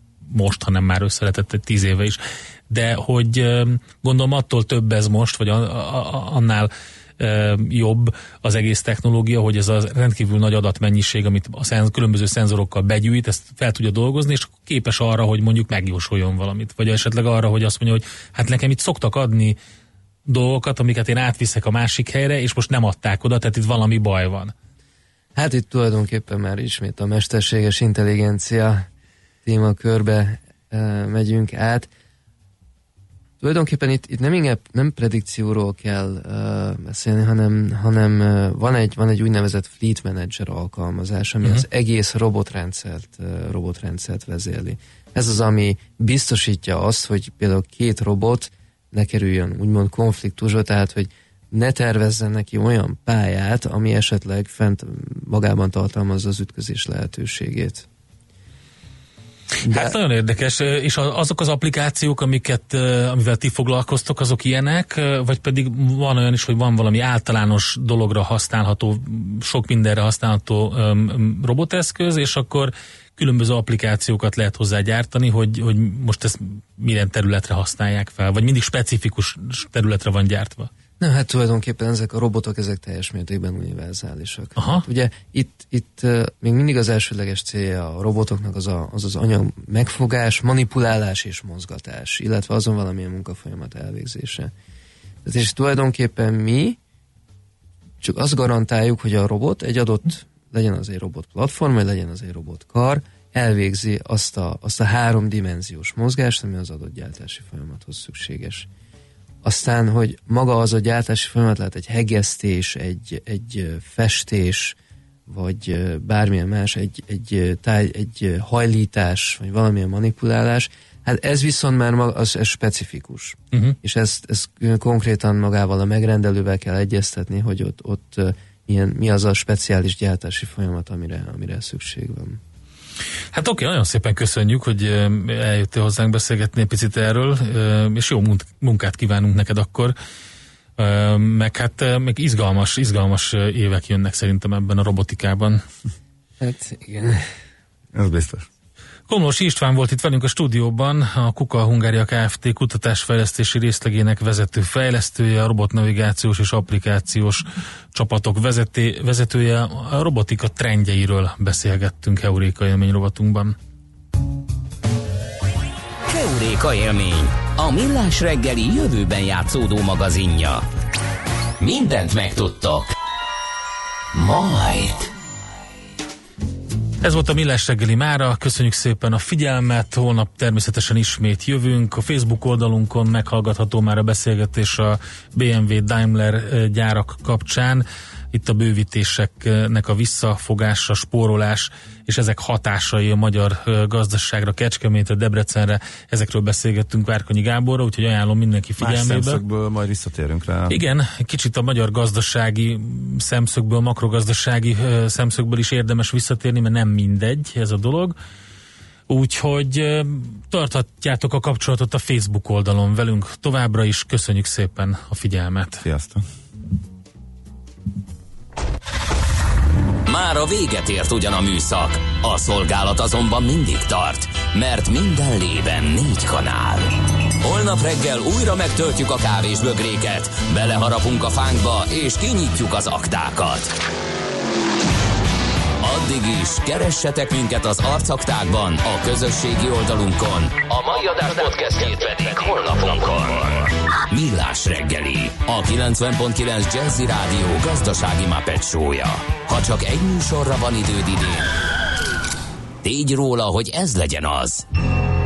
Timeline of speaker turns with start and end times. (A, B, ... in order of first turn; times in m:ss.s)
0:00.3-0:19.6 A
0:20.3-0:24.5 A
0:25.4-0:28.9 B
0:29.4-0:31.9 B
0:33.4-0:57.9 B
0:59.6-1:00.0 B
0:59.7-1:20.7 A
1:21.0-1:34.5 B
1:24.6-1:24.8 A
1:35.2-1:36.8 B
1:38.0-1:48.7 B
1:49.4-1:54.8 B
1:55.3-2:12.4 B
2:13.3-2:20.0 A
2:20.8-2:25.6 A
2:26.4-2:27.2 B
2:27.9-2:28.5 C
2:29.1-2:43.6 A
2:46.1-2:50.6 D
2:51.6-2:52.9 D
2:54.1-2:55.1 D
2:57.0-3:19.4 A
3:18.8-3:20.8 C
3:20.7-3:28.2 A
3:29.1-3:35.8 A
3:35.8-3:36.2 C
3:40.1-3:46.9 D
3:47.4-3:53.7 D
3:55.8-4:11.5 D
4:12.8-4:14.6 D